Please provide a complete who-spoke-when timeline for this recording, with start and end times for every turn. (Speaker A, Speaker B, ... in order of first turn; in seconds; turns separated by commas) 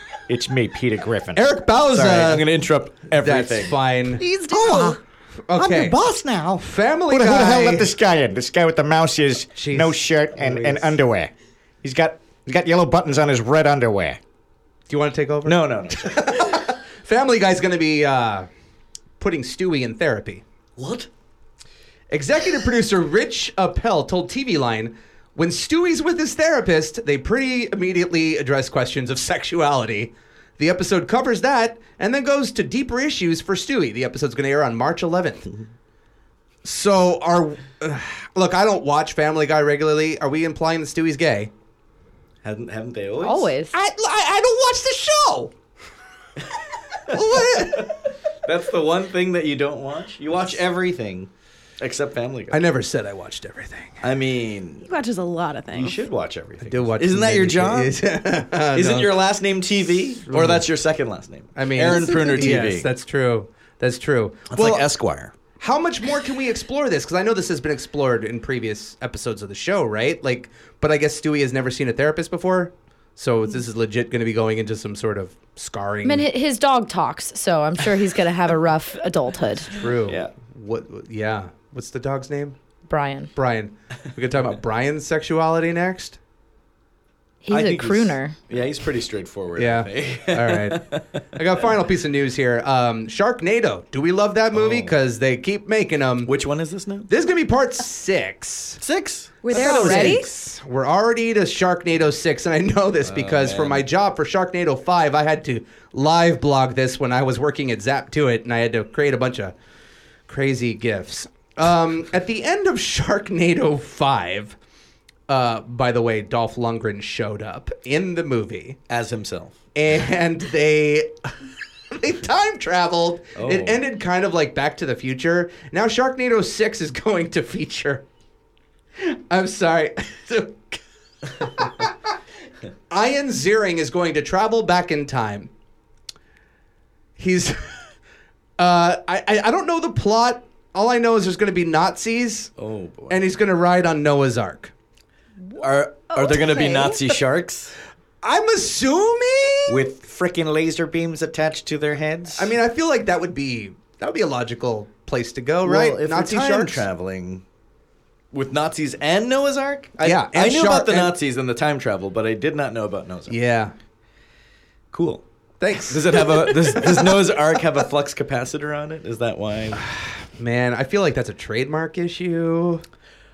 Speaker A: 0.3-1.4, Speaker B: 1.3-2.5, Speaker C: 1.9-3.8, Speaker B: 3.2-4.2, Speaker A: 4.2-5.0, Speaker B: 5.5-6.0, Speaker A: 5.5-14.2, Speaker B: 6.6-7.9, Speaker B: 9.5-11.0, Speaker B: 14.9-18.5, Speaker C: 15.4-16.5, Speaker B: 19.2-20.4, Speaker C: 20.8-21.1, Speaker B: 22.1-35.5, Speaker B: 36.6-41.5, Speaker C: 42.4-43.5, Speaker D: 43.2-43.7, Speaker B: 43.7-45.5, Speaker C: 47.1-47.9, Speaker B: 47.1-48.0, Speaker C: 48.4-52.6, Speaker B: 52.5-54.0, Speaker C: 54.0-54.9, Speaker E: 54.8-56.0, Speaker C: 55.7-57.9, Speaker B: 56.6-59.1, Speaker C: 58.7-62.9, Speaker B: 60.2-60.6, Speaker B: 61.5-64.9, Speaker E: 62.1-62.4, Speaker C: 64.5-65.3, Speaker B: 65.6-76.3, Speaker D: 76.0-79.7, Speaker B: 79.7-82.5, Speaker C: 80.0-80.3, Speaker D: 82.9-83.3, Speaker B: 83.3-86.2, Speaker D: 87.4-88.4, Speaker C: 87.5-91.0, Speaker B: 89.5-96.3, Speaker C: 94.5-95.0, Speaker C: 96.2-97.1, Speaker B: 97.1-98.8, Speaker C: 98.8-100.3, Speaker E: 99.4-100.3, Speaker B: 99.5-109.5, Speaker C: 103.0-103.8, Speaker B: 110.3-114.5, Speaker B: 115.3-118.8, Speaker C: 118.9-119.5, Speaker B: 119.7-121.3, Speaker B: 121.9-128.0, Speaker C: 123.3-123.8, Speaker B: 129.0-130.8, Speaker B: 131.4-131.9, Speaker B: 132.9-135.5, Speaker B: 137.2-137.8, Speaker B: 138.6-142.5, Speaker C: 142.6-143.2, Speaker B: 143.1-144.7, Speaker C: 145.5-147.8, Speaker E: 146.2-146.9, Speaker B: 148.2-149.9, Speaker C: 149.7-152.5, Speaker B: 152.3-156.8, Speaker C: 155.6-157.4, Speaker C: 158.3-163.3, Speaker B: 160.0-161.1, Speaker B: 163.3-163.7, Speaker C: 164.9-165.2, Speaker B: 165.6-167.2, Speaker C: 165.8-169.8, Speaker B: 170.3-172.8